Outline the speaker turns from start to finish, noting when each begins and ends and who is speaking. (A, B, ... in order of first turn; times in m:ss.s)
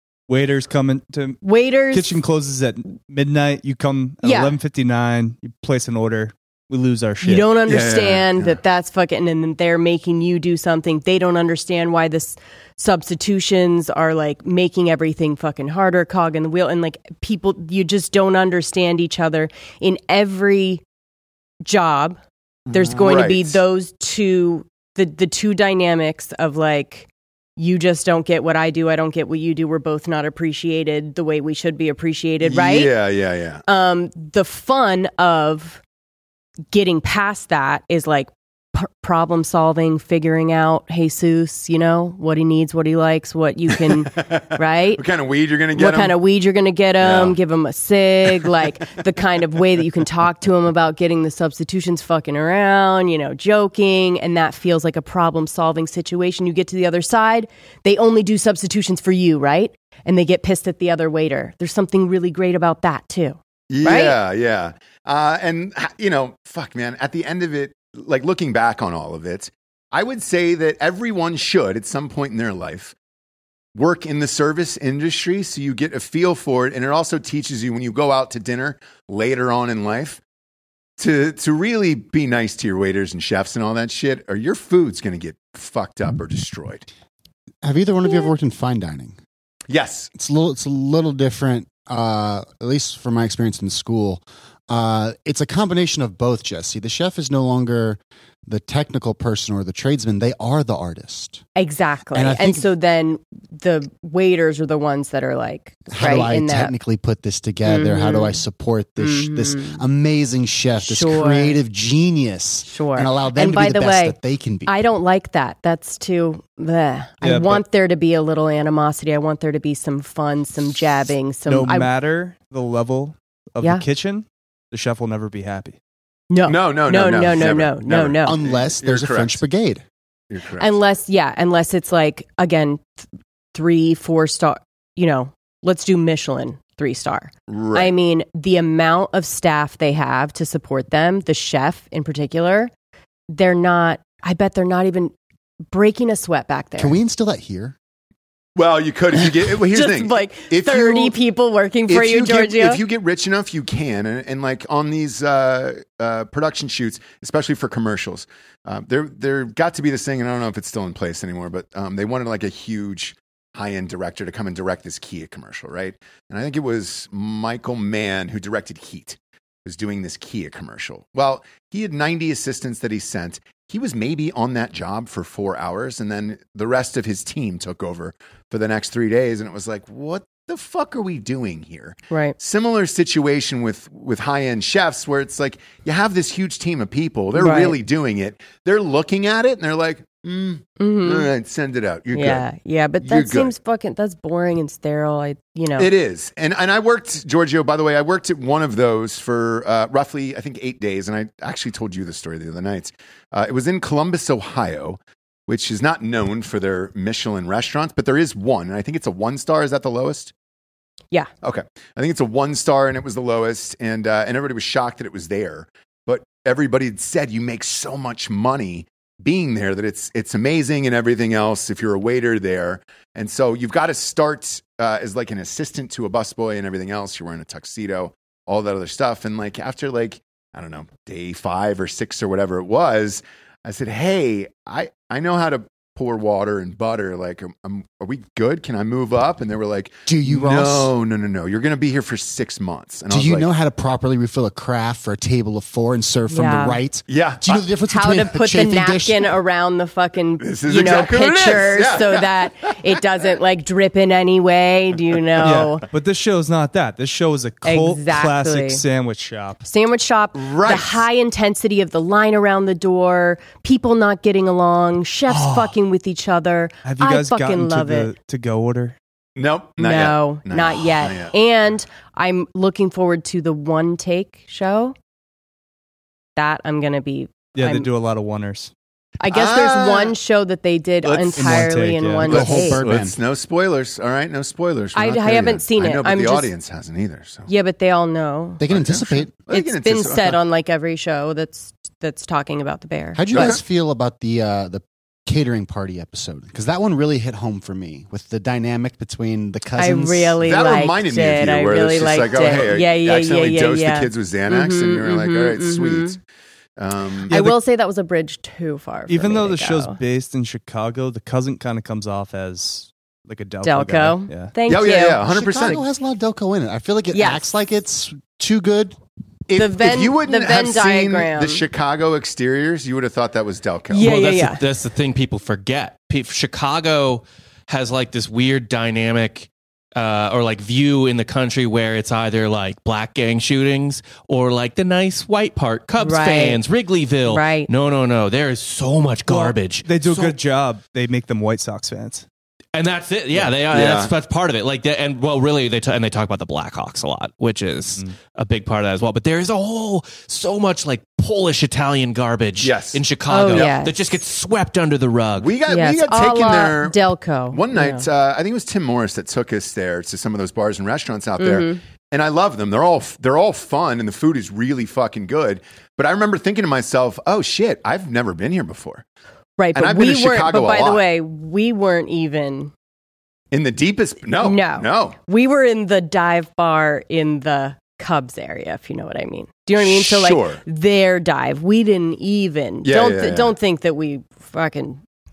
0:00.3-0:07.6 A
0:01.4-0:02.2 B
0:04.2-0:04.6 B
0:07.2-0:20.8 B
0:07.6-0:08.6 C
0:21.6-0:22.2 B
0:22.7-0:23.6 C
0:22.7-0:32.9 B
0:32.4-0:33.6 C
0:33.6-0:35.8 B
0:36.7-0:45.0 B
0:44.1-0:46.2 C
0:45.7-1:04.2 B
0:47.0-0:47.4 C
1:03.7-1:12.9 C
1:13.7-1:20.2 C
1:21.0-1:26.8 C
1:27.6-1:29.2 D
1:29.7-1:30.1 C
1:30.1-1:41.4 D
1:41.6-1:46.7 B
1:42.1-1:42.7 D
1:45.9-1:54.7 D
1:47.6-1:48.4 B
1:49.0-1:49.8 B
1:50.8-1:51.6 B
1:52.6-2:01.9 B
1:57.2-1:57.6 A
2:01.5-2:05.8 A
2:06.3-2:08.4 B
2:06.4-2:09.4 C
2:08.2-2:09.8 D
2:10.3-2:10.7 C
2:10.6-2:22.7 B
2:17.5-2:17.9 C
2:23.3-2:25.1 B
2:25.7-2:27.0 B
2:26.8-2:27.7 D
2:28.6-2:31.2 C
2:29.3-2:32.8 B
2:31.9-3:12.4 C
3:02.1-3:02.4 B
3:07.3-3:07.8 B
3:10.8-3:11.3 B
3:12.1-3:15.9 B
3:13.0-3:13.5 C
3:15.8-3:30.3 C
3:31.4-4:03.5 C
4:00.1-4:00.9 D
4:03.1-4:09.3 D
4:06.3-4:06.8 B
4:07.1-4:07.6 C
4:07.9-4:15.8 B
4:10.4-4:12.8 C
4:15.4-4:19.6 A
4:17.6-4:18.8 B
4:19.6-4:28.1 B
4:20.3-4:21.0 C
4:25.3-4:25.7 C
4:26.8-4:29.0 A
4:29.4-4:31.3 C
4:29.8-4:34.9 B
4:36.4-4:37.9 B
4:37.5-4:38.7 A
4:39.2-4:42.8 B
4:39.3-4:40.1 C
4:41.0-4:41.6 C
4:41.4-4:42.5 A
4:42.2-4:43.2 D
4:42.2-4:47.5 C
4:44.9-4:46.5 B
4:47.5-4:48.6 B
4:48.6-4:49.3 D
4:48.7-4:50.4 C
4:49.5-4:53.6 B
4:53.1-5:00.4 D
4:53.3-4:53.6 C
4:59.8-5:06.2 B
5:00.4-5:06.2 C
5:06.8-5:07.3 C
5:07.3-5:07.6 A
5:07.3-5:10.0 B
5:09.1-5:14.5 A
5:13.6-5:15.3 B
5:14.6-5:15.8 C
5:15.2-5:19.0 D
5:17.1-5:17.5 B
5:19.5-5:24.1 C
5:19.5-5:21.6 B
5:23.9-5:24.6 B
5:24.0-5:40.3 E
5:36.0-5:36.6 B
5:37.2-5:37.7 B
5:39.3-5:42.2 A
5:42.7-5:55.5 E
5:43.4-5:44.1 C
5:52.6-5:53.7 C
5:53.3-5:54.1 B
5:55.4-6:09.0 C
5:55.7-5:58.1 B
6:01.4-6:01.8 B
6:09.6-6:12.7 B
6:09.7-6:11.0 C
6:13.5-6:15.2 C
6:14.4-6:25.0 B
6:19.8-6:20.6 C
6:22.8-6:23.5 C